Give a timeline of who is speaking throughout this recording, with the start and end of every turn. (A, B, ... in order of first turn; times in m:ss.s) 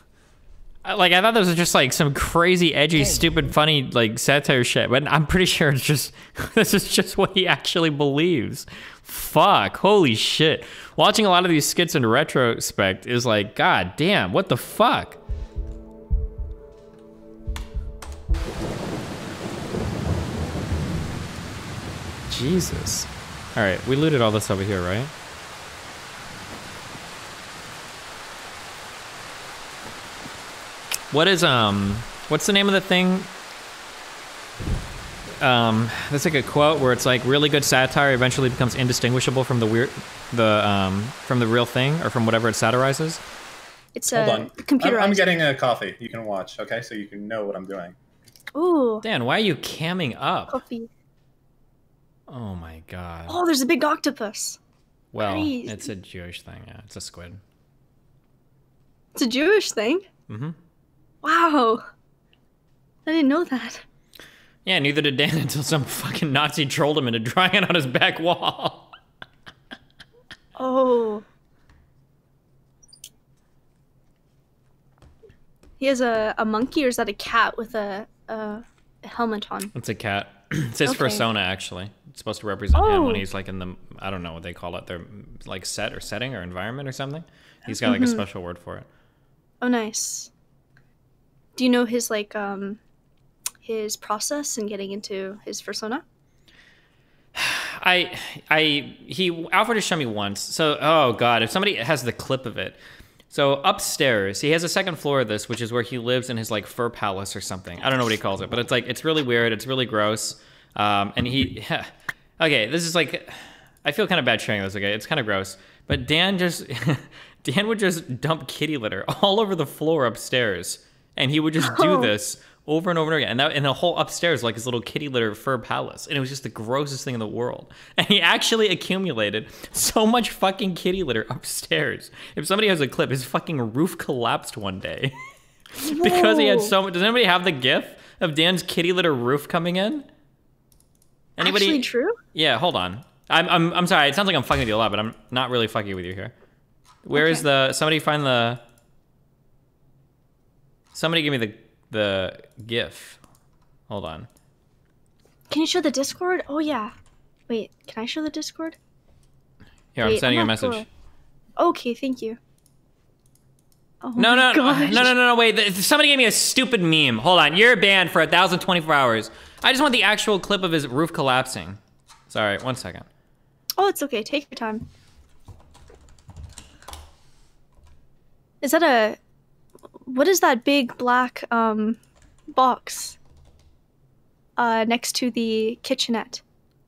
0:00.8-0:15.2 A
0:22.3-0:25.1 A
0:31.1-0:33.3 A
0:35.4-0:43.2 A
0:43.9-0:45.2 B
0:44.1-0:47.9 C
0:48.5-0:49.0 B
0:49.0-0:50.6 A
0:50.5-0:50.9 B
0:52.3-0:53.4 A
0:53.3-0:54.6 B
0:55.1-0:57.4 A
0:55.2-0:55.9 B
0:59.2-1:00.0 B
1:00.3-1:00.6 A
1:01.2-1:01.8 B
1:03.0-1:03.8 B
1:04.6-1:08.9 A
1:10.6-1:11.2 B
1:15.8-1:19.7 B
1:19.7-1:28.9 A
1:20.8-1:21.2 B
1:22.8-1:23.2 B
1:27.7-1:28.2 B
1:29.6-1:30.3 B
1:31.6-1:32.8 B
1:33.6-1:36.0 B
1:37.4-1:42.8 A
1:43.3-2:15.1 A
2:01.7-2:02.0 B
2:15.8-2:20.1 A
2:15.9-2:16.7 B
2:21.4-2:26.3 A
2:21.4-2:22.2 B
2:27.0-2:28.6 A
2:27.1-2:27.4 B
2:30.9-2:33.2 A
2:33.9-2:34.3 A
2:35.5-2:36.9 B
2:37.5-2:38.8 B
2:39.9-2:40.8 A
2:40.0-2:40.8 B
2:41.6-2:42.4 B
2:44.0-2:45.1 B
2:44.2-2:51.8 A
2:52.3-2:53.1 A
2:53.8-2:54.8 B
2:58.6-2:59.2 B
3:00.1-3:02.0 B
3:02.5-3:03.2 B
3:04.6-3:06.4 B